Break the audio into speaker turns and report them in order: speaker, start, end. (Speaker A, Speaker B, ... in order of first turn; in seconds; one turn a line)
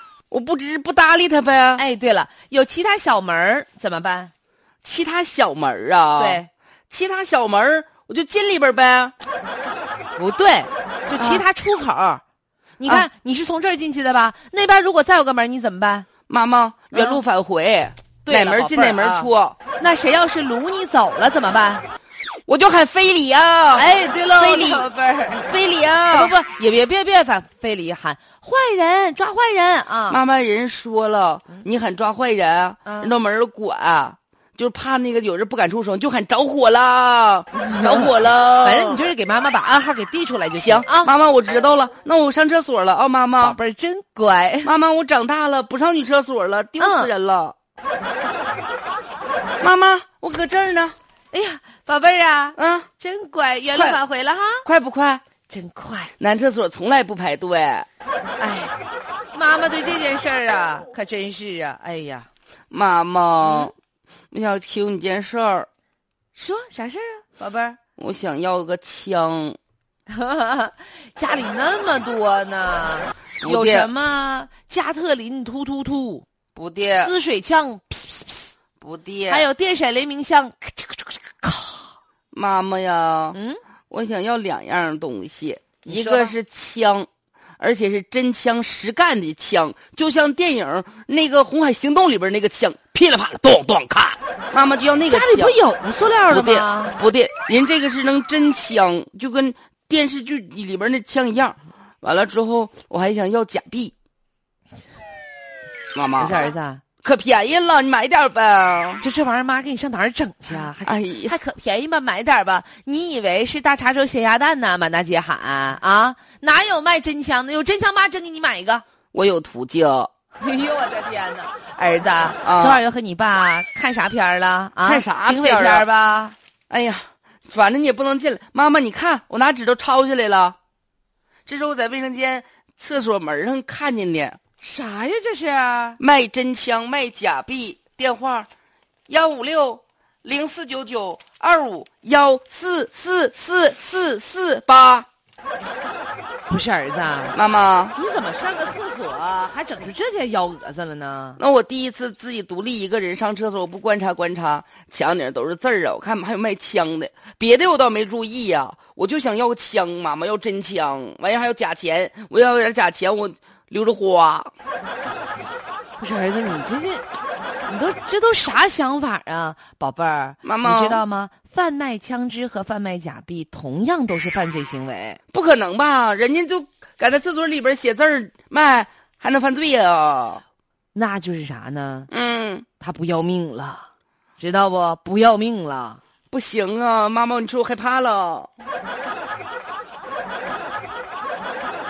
Speaker A: 0.3-1.8
Speaker B: 1.8-4.3
Speaker A: 4.8-9.1
Speaker B: 6.2-6.5
Speaker B: 10.2-12.2
Speaker A: 11.2-11.4
Speaker B: 12.8-16.1
Speaker A: 16.3-19.6
Speaker B: 16.9-17.2
Speaker B: 18.2-21.9
Speaker A: 22.5-26.4
Speaker B: 23.7-24.9
Speaker B: 26.1-30.2
Speaker A: 30.1-39.0
Speaker B: 32.8-33.1
Speaker B: 37.5-41.1
Speaker A: 40.5-43.6
Speaker B: 43.4-44.7
Speaker A: 44.6-47.5
Speaker B: 46.8-47.1
Speaker A: 49.6-51.0
Speaker B: 51.3-54.6
Speaker A: 52.6-52.9
Speaker A: 53.7-54.0
Speaker A: 54.6-55.2
Speaker B: 55.5-56.1
Speaker A: 56.2-57.9
Speaker B: 58.4-58.8
Speaker B: 59.3-62.3
Speaker A: 62.7-63.7
Speaker B: 63.4-63.7
Speaker A: 64.3-65.7
Speaker B: 66.3-67.8
Speaker A: 68.0-69.6
Speaker B: 70.1-76.2
Speaker A: 73.4-73.9
Speaker A: 76.5-77.1
Speaker B: 77.0-78.5
Speaker A: 78.8-79.5
Speaker B: 79.3-81.9
Speaker A: 82.3-83.4
Speaker B: 83.3-83.6
Speaker A: 83.9-87.1
Speaker B: 85.8-86.3
Speaker A: 87.6-95.6
Speaker B: 95.1-97.0
Speaker A: 96.3-103.9
Speaker A: 105.9-106.5
Speaker B: 106.2-106.8
Speaker A: 107.0-109.0
Speaker B: 109.0-118.8
Speaker A: 110.8-111.3
Speaker A: 119.1-120.1
Speaker B: 120.3-126.3
Speaker A: 122.4-122.8
Speaker A: 124.8-125.9
Speaker A: 126.7-130.6
Speaker A: 131.4-134.4
Speaker B: 134.6-136.0
Speaker A: 136.0-138.5
Speaker A: 139.1-145.1
Speaker B: 146.5-147.3
Speaker A: 147.3-147.9
Speaker B: 147.9-151.4
Speaker A: 151.4-164.5
Speaker B: 166.0-167.1
Speaker B: 167.7-175.2
Speaker A: 170.4-171.0
Speaker A: 175.3-180.4
Speaker B: 180.9-182.1
Speaker A: 182.1-182.7
Speaker B: 182.8-183.9
Speaker B: 184.4-186.0
Speaker A: 186.3-188.5